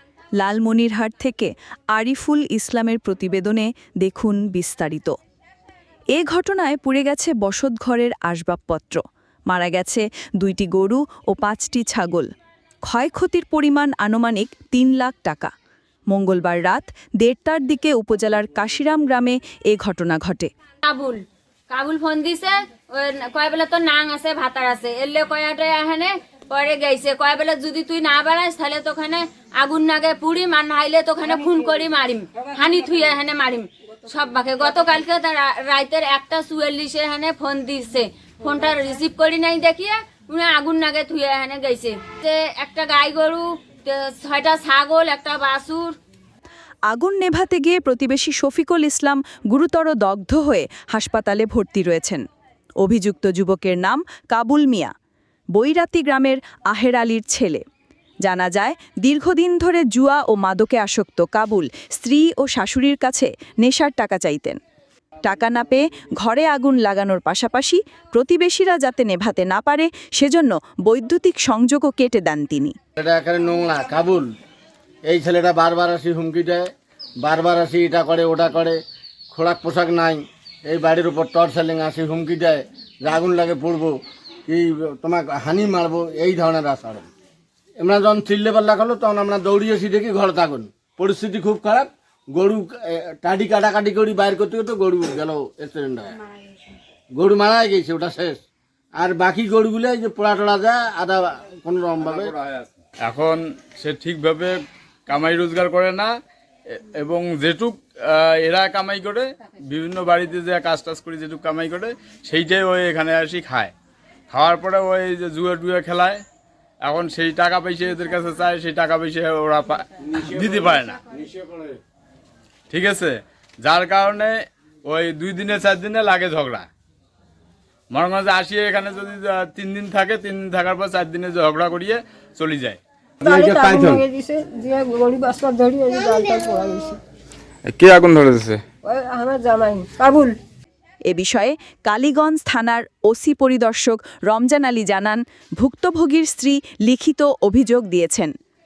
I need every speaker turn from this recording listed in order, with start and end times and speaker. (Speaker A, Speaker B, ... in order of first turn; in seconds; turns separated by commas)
Speaker A: 0.4-5.1, Speaker A: 6.1-12.3, Speaker A: 12.8-15.5, Speaker A: 16.1-20.5, Speaker B: 20.8-45.9, Speaker A: 46.9-52.2, Speaker A: 52.8-54.9, Speaker A: 55.5-57.6, Speaker A: 58.2-64.6, Speaker A: 65.2-72.8, Speaker C: 73.0-74.3, Speaker C: 75.1-76.7, Speaker C: 77.2-78.8, Speaker C: 79.3-87.1, Speaker C: 87.8-96.2, Speaker C: 97.1-98.4, Speaker C: 99.0-102.3, Speaker D: 103.0-106.1, Speaker D: 106.8-113.7, Speaker D: 114.3-116.2, Speaker D: 116.8-121.2, Speaker D: 122.7-126.7, Speaker D: 127.9-132.8, Speaker E: 133.2-137.0, Speaker C: 133.2-134.0, Speaker D: 137.7-138.6, Speaker E: 138.8-140.4, Speaker A: 141.1-148.3